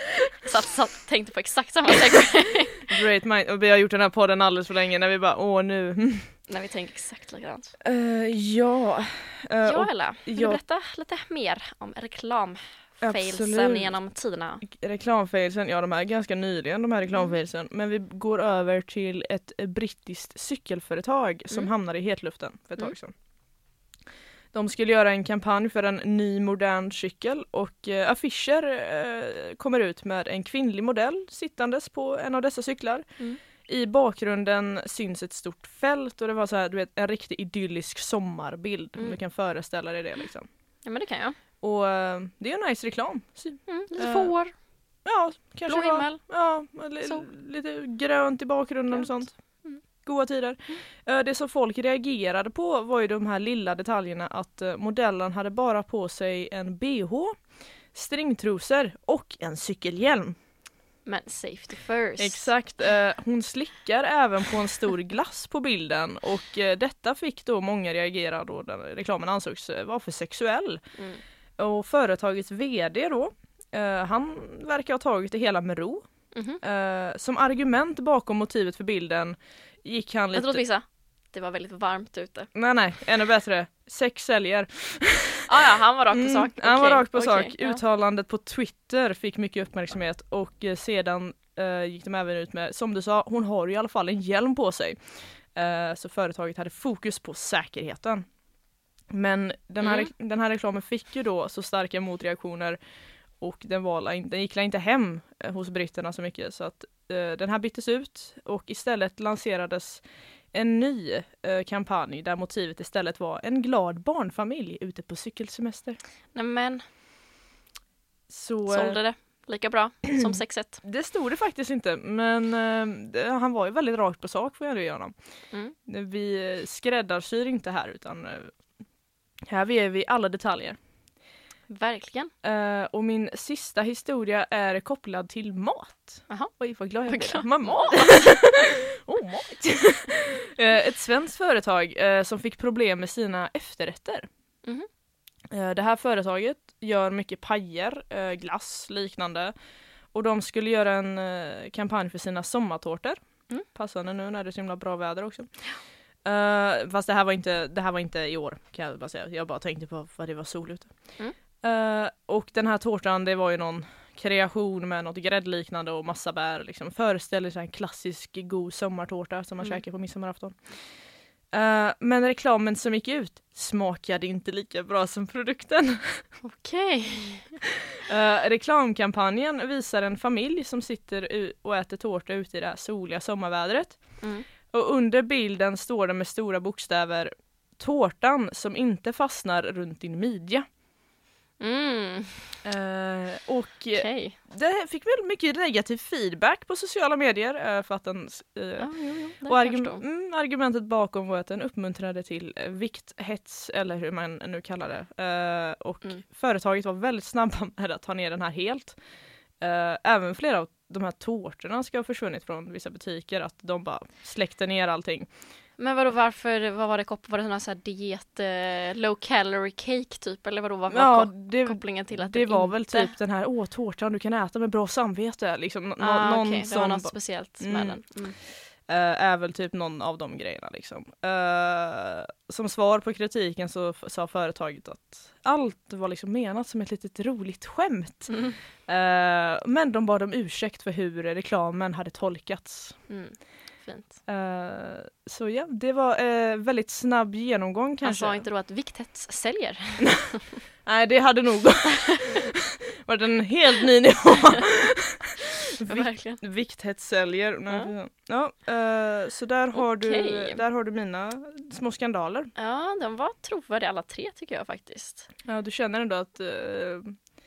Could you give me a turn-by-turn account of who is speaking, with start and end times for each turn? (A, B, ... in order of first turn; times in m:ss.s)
0:00.4-0:02.9 A
0:02.9-0:06.3 B
0:06.5-0:07.7 A
0:07.8-0:10.6 B
0:09.6-0:14.6 A
0:13.0-0:14.0 B
0:14.6-0:23.1 B
0:24.5-0:33.1 B
0:33.7-0:40.5 B
0:40.8-0:41.4 A
0:41.6-0:44.3 B
0:43.7-0:44.5 A
0:45.0-0:49.3 B
0:45.7-0:46.2 A
0:48.9-0:49.8 A
0:50.0-0:57.4 B
0:57.9-1:00.4 B
1:01.1-1:02.5 A
1:02.2-1:10.8 B
1:11.0-1:11.2 A
1:11.6-1:16.1 B
1:16.3-1:16.6 A
1:16.6-1:20.6 B
1:20.3-1:22.5 A
1:22.5-1:25.5 B
1:25.5-1:27.8 A
1:26.1-1:35.0 B
1:35.5-1:38.3 B
1:39.1-1:42.8 B
1:39.8-1:40.1 A
1:43.4-1:56.0 B
1:56.4-1:56.8 A
1:58.3-1:59.0 B
1:58.7-2:00.8 A
2:00.8-2:05.1 B
2:05.9-2:08.5 B
2:09.5-2:10.8 B
2:11.7-2:12.3 A
2:12.4-2:24.3 B
2:17.1-2:18.4 A
2:25.5-2:29.5 B
2:30.1-2:33.2 B
2:33.7-2:35.5 B
2:36.2-2:40.9 B
2:41.6-2:50.6 B
2:51.5-2:56.2 B
2:56.4-2:57.6 A
2:58.0-3:10.7 B
3:04.2-3:04.5 A
3:11.6-3:12.5 A
3:12.6-3:29.0 B
3:13.9-3:14.4 A
3:18.8-3:20.0 A
3:29.6-3:35.3 B
3:35.8-3:43.1 A
3:40.9-3:48.0 B
3:46.0-3:48.4 A
3:48.9-4:03.0 B
3:58.3-3:58.6 A
4:03.1-4:04.2 A
4:04.3-4:08.4 B
4:08.0-4:10.4 A
4:10.8-4:22.5 B
4:15.8-4:16.4 A
4:19.7-4:20.6 A
4:22.6-4:25.3 A
4:25.4-4:27.2 B